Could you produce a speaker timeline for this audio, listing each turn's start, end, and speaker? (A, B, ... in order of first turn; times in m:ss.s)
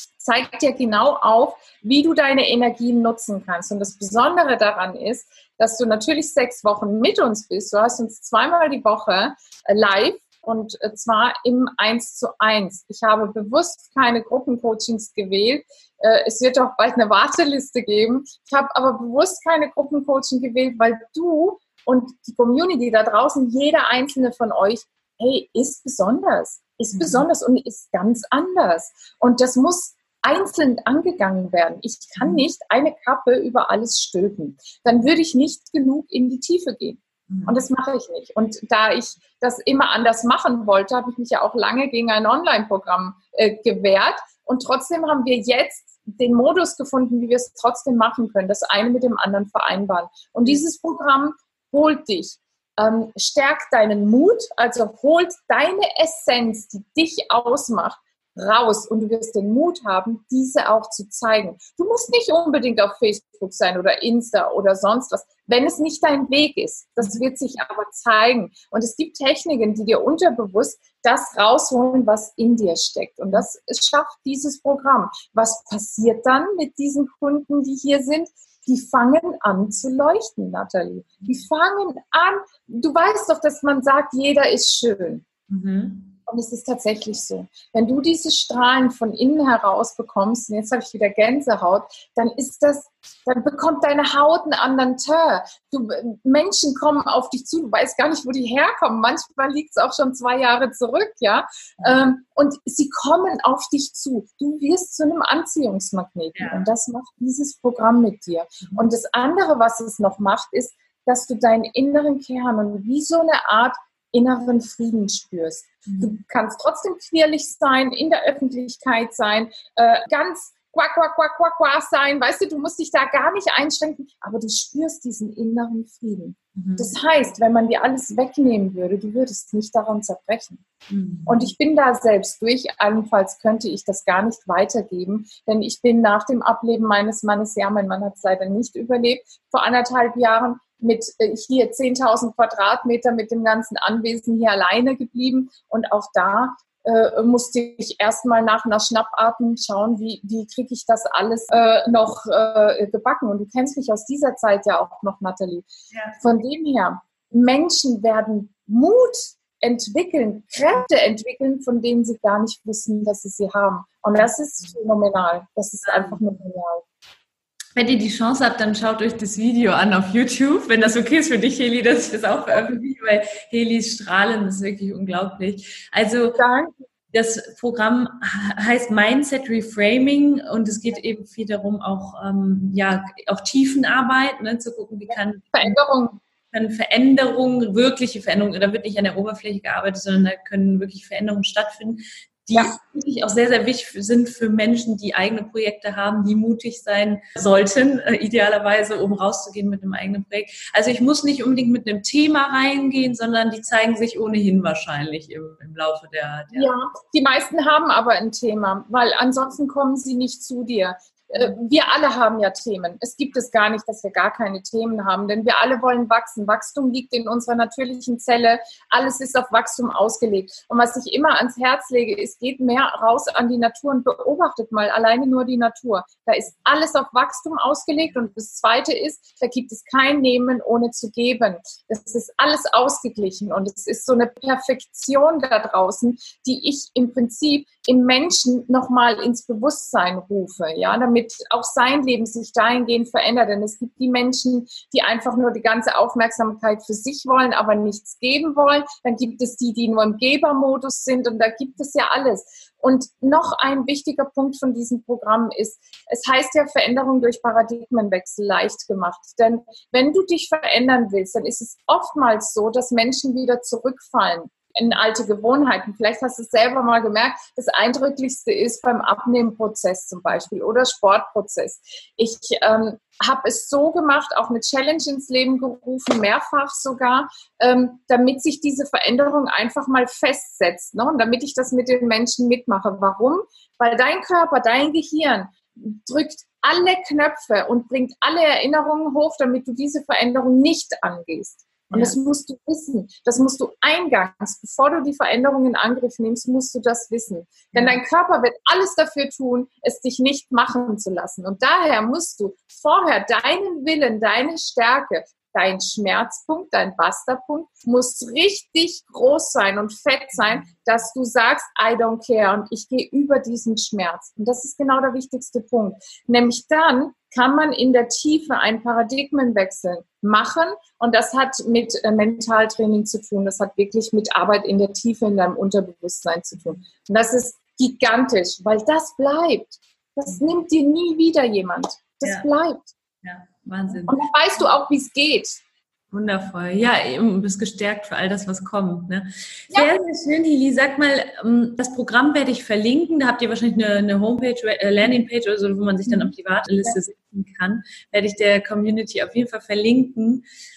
0:00.2-1:25.2 A
0:26.9-0:27.2 B
0:32.2-0:32.4 B
0:37.3-0:37.6 B
1:25.5-1:26.1 B
1:26.2-2:10.6 A
1:46.4-1:46.7 B
1:55.9-1:56.1 B
2:06.6-2:06.9 B
2:10.9-2:11.5 B
2:11.3-2:35.7 A
2:35.9-2:36.2 B
2:36.2-2:46.9 A
2:45.9-2:46.3 B
2:47.8-2:56.4 B
2:56.4-2:56.7 A
2:57.1-3:05.8 B
3:05.5-3:06.2 A
3:06.5-3:26.7 B
3:26.5-5:32.9 A
4:51.9-4:52.2 B
4:57.7-4:58.0 B
5:33.2-5:34.2 B
5:34.0-5:35.6 A
5:36.1-5:50.4 B
5:46.0-5:47.0 A